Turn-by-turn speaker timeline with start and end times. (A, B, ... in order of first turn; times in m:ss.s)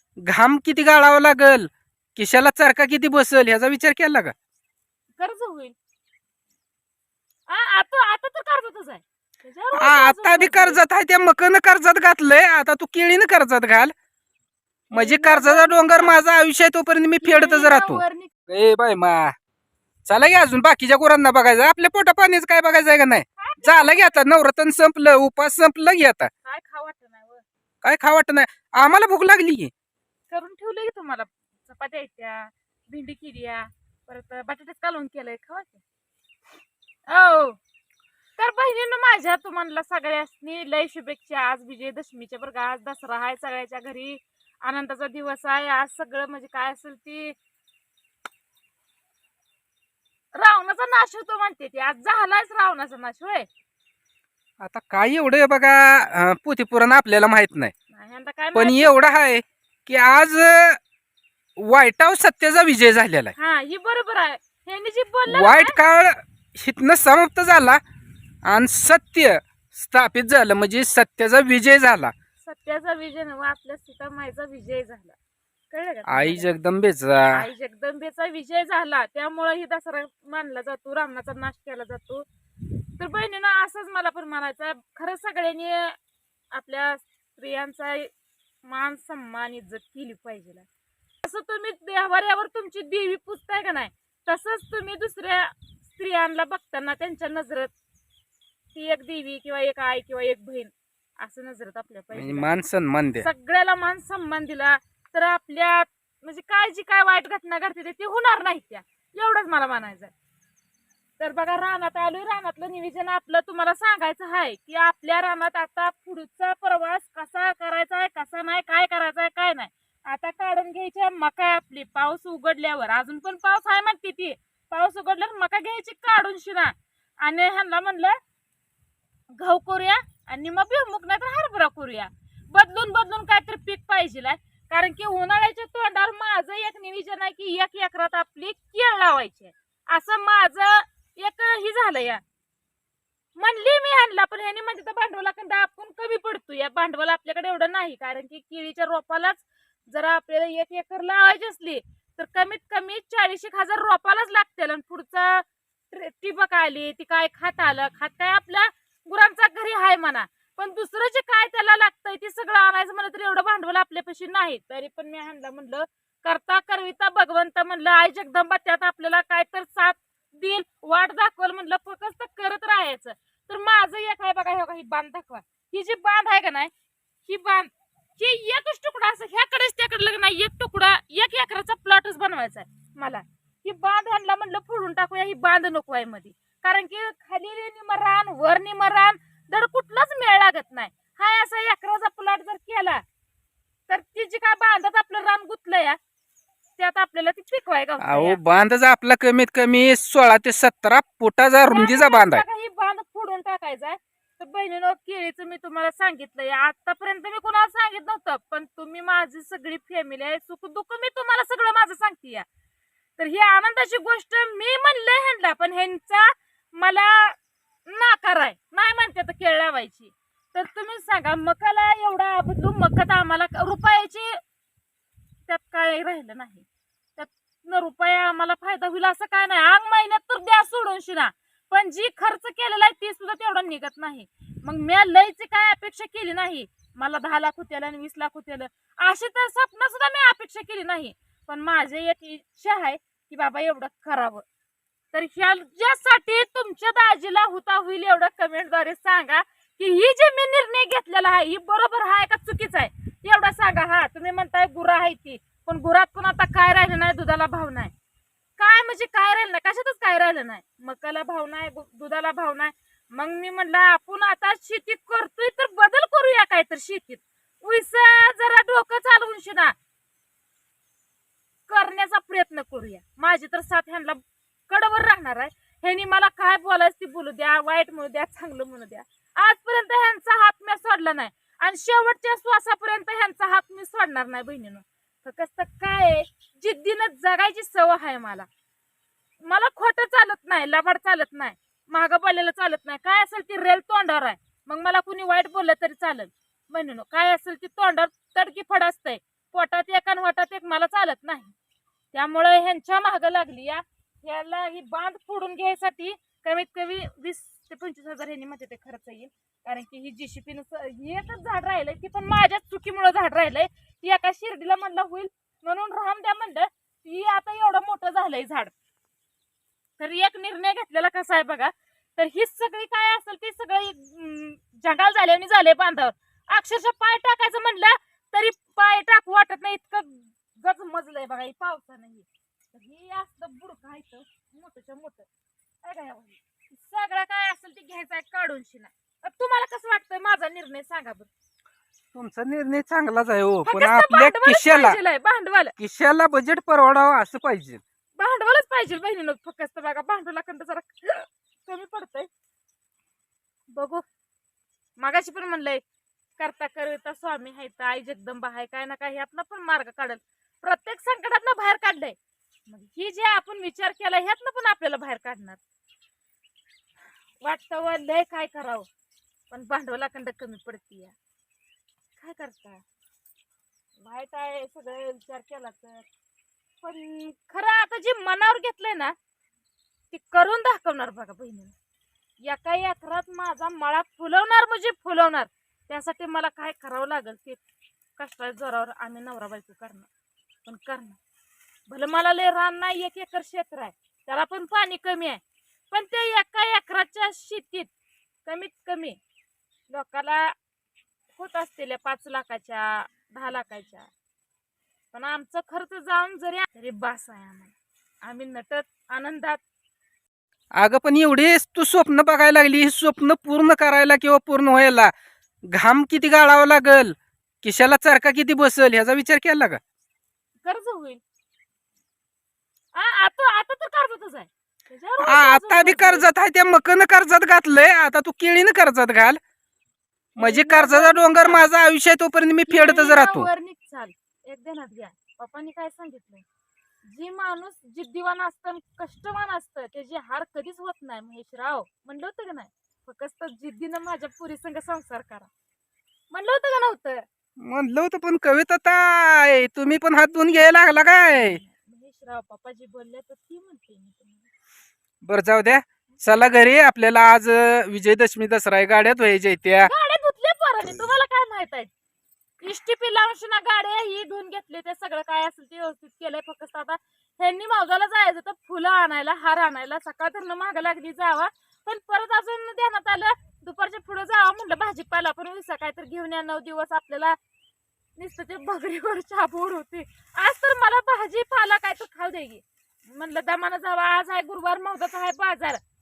0:00.2-0:04.3 A
0:05.2-0:05.7 B
0:07.5-0:10.8 B
0:09.8-0:13.9 A
0:14.9-0:16.2 B
0:14.9-0:19.3 A
0:17.2-0:18.3 B
0:20.0-0:26.3 A
0:23.4-0:24.2 B
0:26.4-0:27.4 B
0:27.8-0:29.7 A
0:30.3-0:35.8 B
0:37.1-0:37.6 B
0:38.4-0:47.4 B
0:50.3-0:53.5 B
0:54.6-0:57.7 A
0:57.9-0:59.0 B
0:58.5-1:00.8 A
1:01.6-1:03.3 A
1:03.4-1:05.8 B
1:05.3-1:07.8 A
1:08.4-1:12.1 A
1:12.4-1:15.2 B
1:15.7-1:16.5 B
1:16.1-1:17.4 A
1:17.3-1:26.0 B
1:26.5-1:28.1 B
1:28.6-1:30.7 B
1:31.2-1:37.7 B
1:38.7-1:42.7 B
1:42.1-1:43.3 A
1:43.2-1:50.1 B
1:51.2-2:08.2 B
2:09.4-2:22.2 B
2:23.4-2:56.7 B
2:57.2-3:13.0 B
3:13.9-3:16.0 B
3:16.8-3:18.4 B
3:18.0-3:22.4 A
3:21.7-3:32.4 B
3:33.2-3:44.4 B
3:45.5-3:46.6 B
3:47.2-4:04.4 B
4:05.1-4:17.9 B
4:18.6-4:29.7 B
4:31.7-4:48.5 B
4:49.4-5:01.5 B
5:02.1-5:18.7 B
5:20.0-5:35.3 B
5:35.8-5:41.3 B
5:42.1-5:45.0 A
5:43.6-5:45.7 B
5:45.8-5:47.8 A
5:48.2-5:52.3 B
5:53.7-5:54.0 B
5:55.0-5:55.8 B
5:56.4-6:05.6 B
6:07.4-6:08.9 B
6:09.5-6:11.1 B
6:12.2-6:12.8 B
6:14.0-6:16.1 B
6:16.8-6:19.1 B
6:20.1-6:21.7 B
6:22.4-6:27.6 B
6:28.2-6:30.1 B
6:30.6-6:31.2 B
6:31.9-6:37.9 B
6:38.4-6:39.2 B
6:39.9-6:40.5 B
6:41.4-6:44.1 B
6:45.1-6:49.6 B
6:50.8-6:55.1 A
6:55.7-6:59.8 A
7:00.6-7:01.2 B
7:02.9-7:06.3 B
7:05.2-7:09.4 A
7:10.4-7:11.6 B
7:10.4-7:13.5 A
7:12.6-7:16.4 B
7:17.0-7:25.5 B
7:26.3-7:27.2 B
7:27.6-7:31.6 A
7:31.3-7:34.5 B
7:35.2-7:39.9 A
7:39.8-7:41.9 B
7:42.6-7:57.4 B
7:58.2-8:05.8 B